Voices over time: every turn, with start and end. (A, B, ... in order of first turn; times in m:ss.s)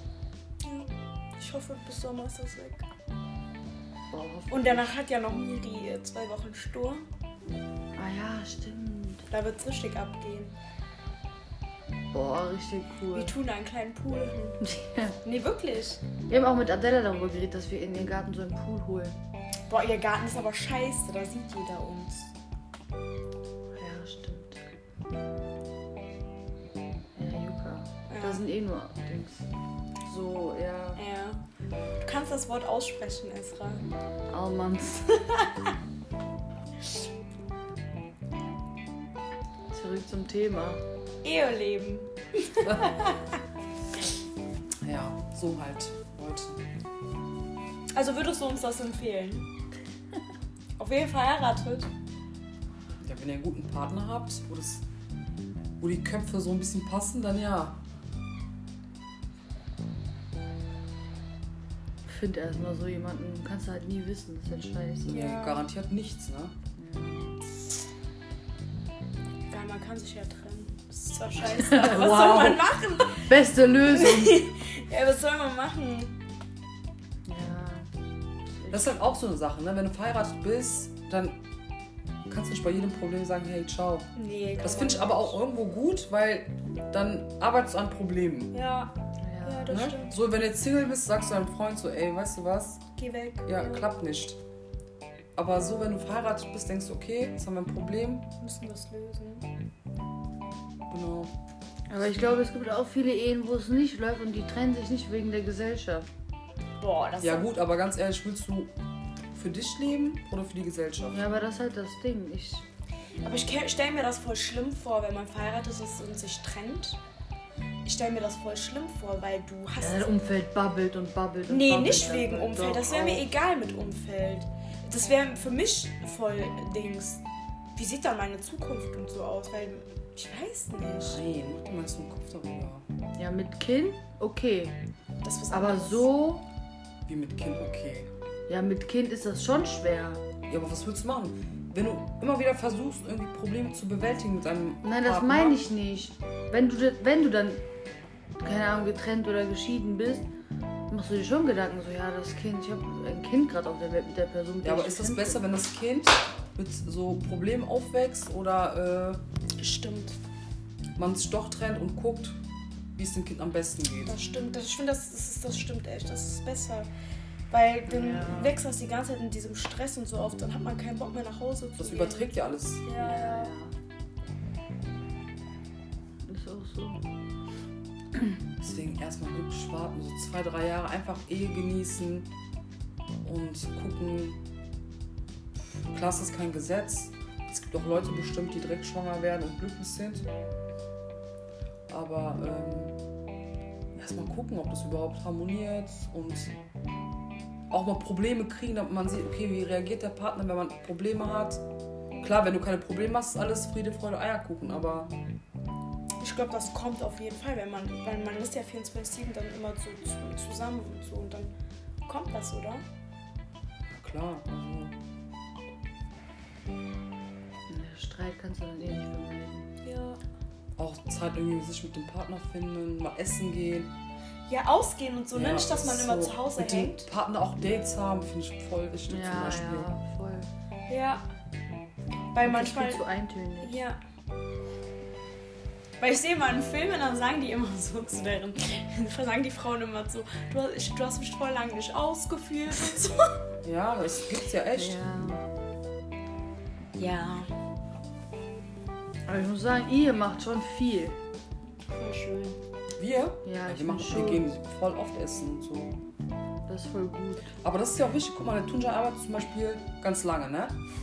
0:00.6-0:02.8 A
0:04.1-0:04.9 B
0:04.5-0:07.0 A
0:08.0-0:09.2 B
0:09.3-0:10.5 A
0:12.1-0:13.3 B
0:13.1-0:14.6 A
0:14.6-0:15.2 B
0:15.2-0:16.0 A
0:16.3-0:19.2 B
0:19.7-0:22.3 A
0:23.8-0:24.6 B
0:27.2-0:29.4 B
0:28.1-0:28.5 A
0:30.0-0:31.0 B
0:31.0-0:31.4 A
0:32.0-0:33.8 A
0:34.3-0:35.5 B
0:39.7-0:40.8 B
0:41.2-0:43.4 A
0:42.6-0:42.9 C
0:44.8-0:46.6 C
0:47.9-0:49.5 A
0:50.8-0:51.9 A
0:53.0-0:54.8 C
0:55.8-0:57.8 C
1:02.1-1:05.2 B
1:05.0-1:06.5 C
1:05.0-1:05.6 A
1:06.8-1:07.4 B
1:09.5-1:13.3 A
1:11.5-1:14.5 B
1:11.9-1:12.5 C
1:13.9-1:16.2 A
1:17.2-1:17.9 B
1:18.6-1:19.0 B
1:18.7-1:21.4 C
1:22.3-1:24.1 C
1:24.1-1:25.4 A
1:24.6-1:28.6 C
1:28.5-1:30.2 A
1:29.2-1:29.9 B
1:29.7-1:32.8 C
1:33.0-1:33.9 A
1:33.4-1:34.4 C
1:35.4-1:38.3 C
1:38.4-1:39.5 A
1:40.9-1:41.3 C
1:41.9-1:46.1 B
1:46.8-1:47.5 A
1:47.2-1:48.7 C
1:49.3-1:51.2 C
1:51.1-1:52.6 B
1:53.2-1:57.0 A
1:57.8-2:00.1 A
1:59.8-2:03.2 B
2:01.5-2:07.2 A
2:07.7-2:11.2 A
2:11.0-2:12.8 C
2:13.2-2:14.8 B
2:15.2-2:16.0 A
2:15.5-2:16.4 B
2:17.0-2:18.1 C
2:18.5-2:20.2 B
2:20.5-2:25.6 C
2:24.8-2:27.6 B
2:28.4-2:30.2 B
2:30.9-2:35.5 B
2:34.6-2:39.2 C
2:39.6-2:40.2 A
2:41.0-2:42.4 C
2:43.0-2:44.2 C
2:44.0-2:46.9 A
2:44.1-2:44.6 B
2:47.5-2:53.5 A
2:47.9-2:48.6 B
2:51.8-2:52.8 C
2:53.0-2:53.7 B
2:56.2-2:57.0 B
2:58.6-3:02.3 C
3:03.2-3:04.4 C
3:05.9-3:10.2 C
3:11.9-3:13.0 C
3:14.0-3:16.6 C
3:17.7-3:21.6 C
3:22.2-3:25.1 C
3:26.2-3:31.5 A
3:32.0-3:32.8 A
3:33.9-3:35.0 C
3:37.7-3:39.7 B
3:39.8-3:40.2 A
3:40.8-3:43.9 C
3:44.5-3:47.1 A
3:45.3-3:49.9 C
3:49.1-3:50.5 B
3:50.9-3:51.2 A
3:52.3-3:53.0 A
3:52.4-3:53.7 B
3:53.6-3:54.0 A
3:56.0-4:03.4 A
4:03.6-4:05.0 C
4:04.7-4:05.4 B
4:07.0-4:07.5 A
4:09.3-4:11.2 B
4:11.9-4:12.6 A
4:13.0-4:16.0 C
4:13.4-4:14.5 B
4:16.7-4:17.5 B
4:17.6-4:20.8 C